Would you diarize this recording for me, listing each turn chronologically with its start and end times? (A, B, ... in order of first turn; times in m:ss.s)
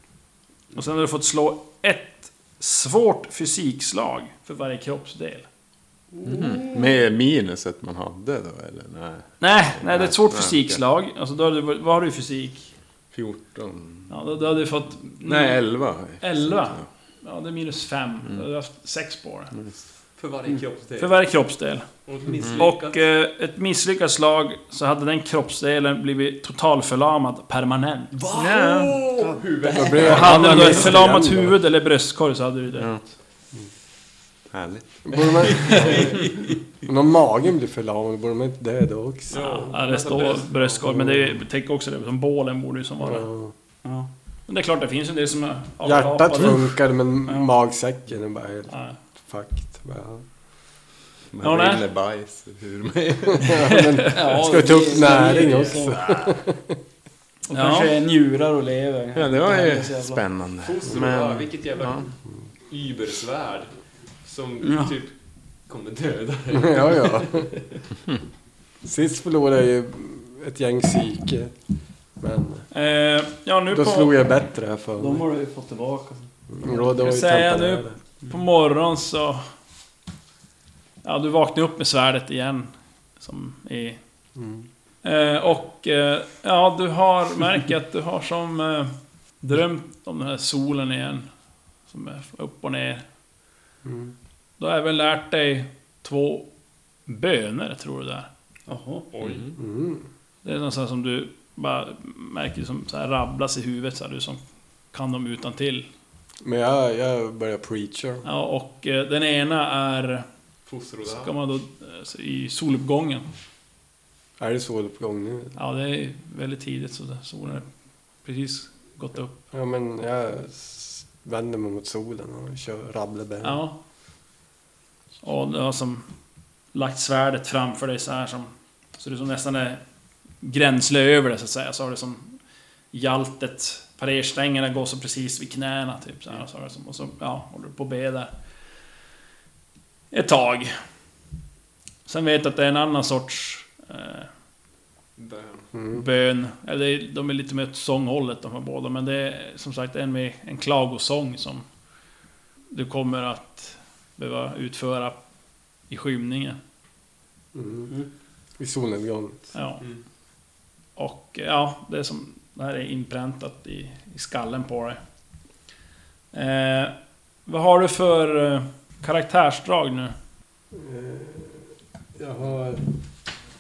0:00.7-0:05.5 A
0:06.3-0:10.8 B
0:09.4-0:12.7 A
0:13.1-0:14.1 B
0:14.1-0:15.6 A
0:15.2-0:16.9 B
0:16.2-0:19.5 A
0:19.5-0:19.8 B
0:20.2-0:21.2 C
0:21.0-0:21.9 A
0:22.1-0:23.0 C
0:22.6-0:29.0 A
0:28.2-0:30.9 C
0:28.4-0:28.7 B
0:29.2-0:30.2 D
0:29.7-0:31.6 E
0:30.0-0:33.0 A
0:32.7-0:33.0 B
0:34.5-0:35.6 B
0:35.0-0:39.6 E
0:35.6-0:36.3 C
0:39.3-0:40.8 C
0:39.5-0:43.3 A
0:40.8-0:41.4 E
0:43.0-0:43.5 E
0:43.8-0:44.1 D
0:44.5-0:46.8 A
0:45.8-0:50.2 E
0:48.7-0:49.0 A
0:51.3-0:53.7 B
0:51.4-0:51.8 A
0:53.3-0:56.8 E
0:53.7-0:54.1 A
0:54.1-0:56.0 D
0:57.5-1:00.2 D
0:57.5-0:58.0 A
0:59.2-1:02.1 B
1:00.6-1:02.1 C
1:02.7-1:03.7 C
1:04.2-1:05.1 C
1:04.6-1:04.9 D
1:05.7-1:07.8 C
1:06.5-1:07.5 E
1:08.8-1:11.5 E
1:12.2-1:12.6 E
1:12.7-1:14.2 A
1:13.7-1:15.2 E
1:15.0-1:16.3 D
1:16.5-1:18.0 E
1:16.8-1:19.4 A
1:21.0-1:24.0 A
1:24.4-1:24.7 E
1:25.0-1:31.3 A
1:31.9-1:33.0 A
1:33.8-1:34.1 E
1:34.6-1:36.5 A
1:37.1-1:38.3 A
1:38.7-1:39.1 D
1:39.1-1:39.5 C
1:39.6-1:40.1 E
1:40.4-1:44.4 A
1:44.9-1:45.9 A
1:46.4-1:48.2 E
1:48.2-1:50.3 A
1:50.7-1:51.3 C
1:51.1-1:53.3 A
1:54.4-1:55.5 E
1:55.6-1:57.7 A
1:58.2-1:59.4 A
1:59.5-2:03.6 E
2:03.4-2:03.8 A
2:05.2-2:06.1 A
2:06.7-2:09.8 A
2:10.4-2:12.4 A
2:12.9-2:18.3 A
2:20.1-2:20.7 A
2:22.1-2:24.3 A
2:25.2-2:25.7 C
2:25.8-2:26.0 E
2:25.9-2:31.6 A
2:32.7-2:35.2 A
2:35.9-2:36.6 A
2:37.5-2:37.9 E
2:38.6-2:39.5 E
2:39.5-2:39.8 A
2:41.0-2:45.0 A
2:46.3-2:47.0 A
2:47.5-2:50.2 A
2:50.7-2:52.9 E